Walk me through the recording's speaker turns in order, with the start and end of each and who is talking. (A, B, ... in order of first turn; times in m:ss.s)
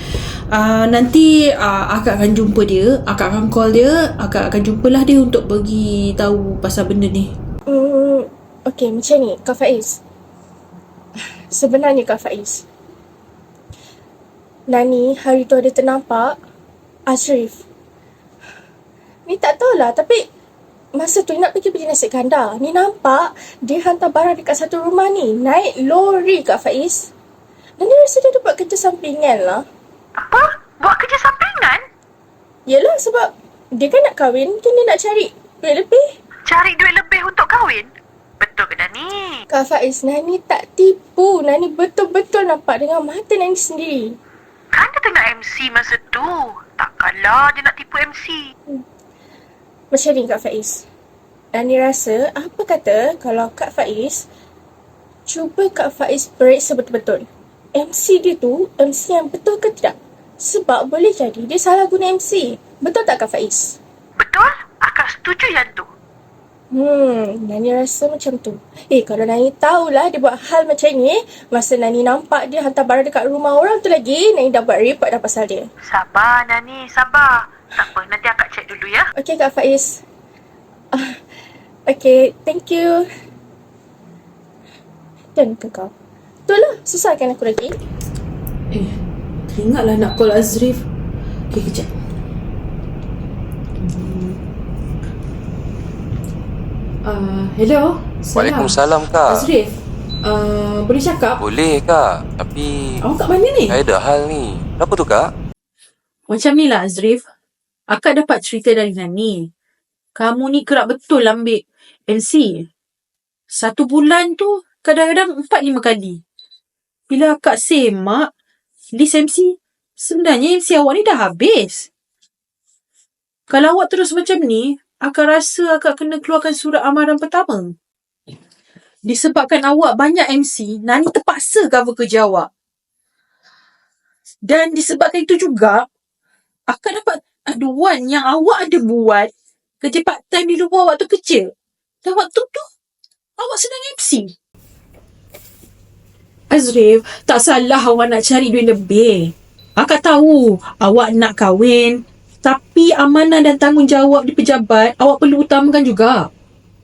0:00.5-0:07.3 A
0:07.7-0:10.0 B
0:11.5-0:12.6 B
0:14.7-0:16.3 B
0:17.1-0:17.6 B
0:19.2-0:20.2 B
0:21.0-0:27.1 B
0:27.8-0:29.6 B
0:30.2-0:31.8 C
0:32.7-0:36.0 B
0:36.5-0:37.9 C
0:38.4-0:39.4 C
0:39.5-0:44.1 B
0:44.7-0:48.5 C
0:49.9-0:50.8 B
0:51.5-0:54.2 B
0:55.3-1:03.8 B
1:04.2-1:05.9 C
1:06.7-1:15.6 B
1:15.9-1:19.1 C
1:19.2-1:20.0 B
1:21.9-1:23.0 B
1:25.3-1:25.9 B
1:26.5-1:27.7 B
1:28.7-1:29.0 A
1:29.5-1:30.8 A
1:31.5-1:31.9 A
1:33.8-1:34.4 A
1:37.0-1:38.7 A
1:38.4-1:39.5 D
1:39.2-1:41.4 A
1:41.4-1:43.0 D
1:43.0-1:43.8 A
1:43.6-1:45.3 D
1:46.3-1:47.2 A
1:47.9-1:49.5 A
1:50.2-1:52.7 A
1:53.5-1:56.2 A
1:57.1-1:58.3 A
1:59.0-2:01.9 A
2:03.5-2:07.7 A
2:09.0-2:12.5 A
2:14.4-2:15.8 A
2:16.7-2:21.5 A
2:22.0-2:22.6 A
2:23.4-2:24.3 A
2:26.5-2:36.3 A